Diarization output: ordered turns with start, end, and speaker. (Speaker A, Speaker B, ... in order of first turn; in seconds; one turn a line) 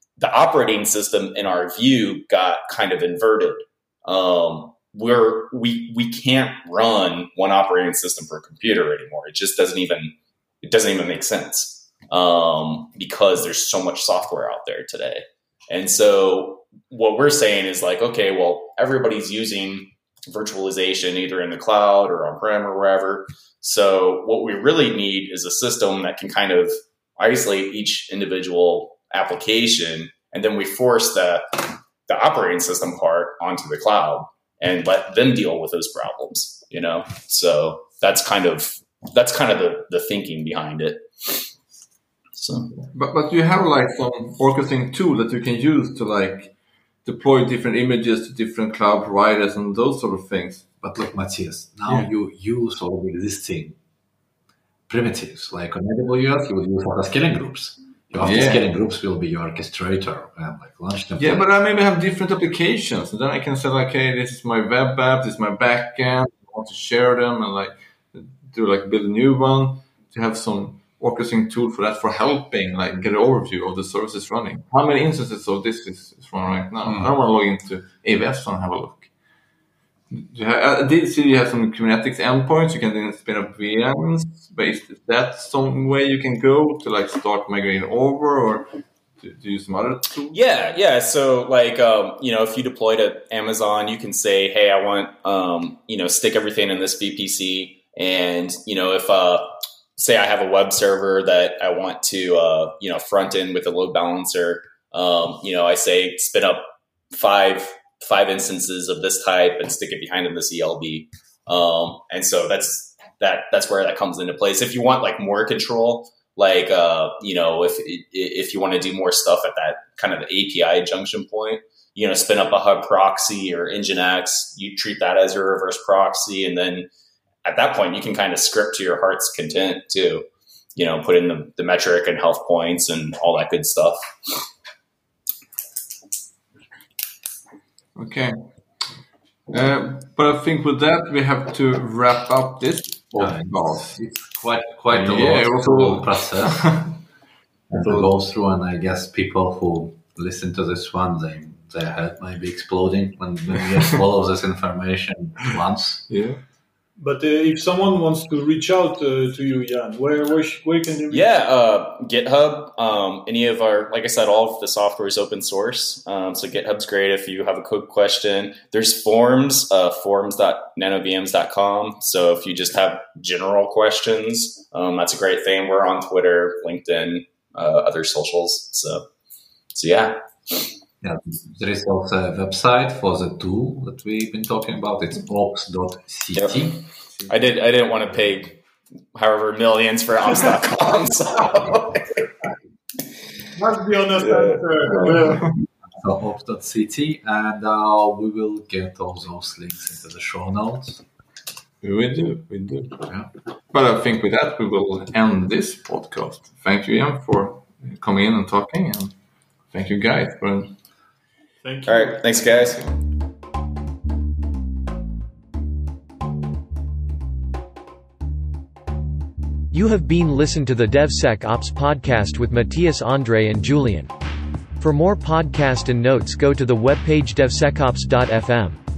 Speaker A: 0.2-41.5
Speaker A: 42.4-42.7
Speaker B: 42.8-50.8
Speaker C: 50.8-53.8
Speaker C: 54.9-61.5
Speaker B: 58.2-58.6
Speaker B: 61.2-79.1
Speaker C: 76.9-77.1
Speaker B: 80.1-90.4
Speaker A: 90.3-126.9
Speaker A: 127.5-130.2
Speaker A: 130.8-134.0
Speaker B: 137.9-138.5
Speaker B: 139.5-144.0
Speaker C: 143.2-146.9
Speaker B: 144.9-146.9
Speaker C: 147.7-156.1
Speaker B: 147.8-148.1
Speaker B: 156.1-156.4
Speaker D: 157.0-161.4
Speaker A: 161.1-179.1
Speaker A: 179.7-180.7
Speaker C: 181.0-186.9
Speaker A: 186.3-186.6
Speaker A: 187.3-188.6
Speaker A: 189.2-192.3
Speaker D: 193.6-195.5
Speaker A: 194.2-195.3
Speaker C: 195.9-201.0
Speaker B: 201.8-203.0
Speaker B: 203.7-209.2
Speaker B: 209.7-210.8
Speaker D: 211.6-212.8
Speaker A: 211.9-213.0
Speaker E: 219.7-224.1
Speaker E: 224.8-228.8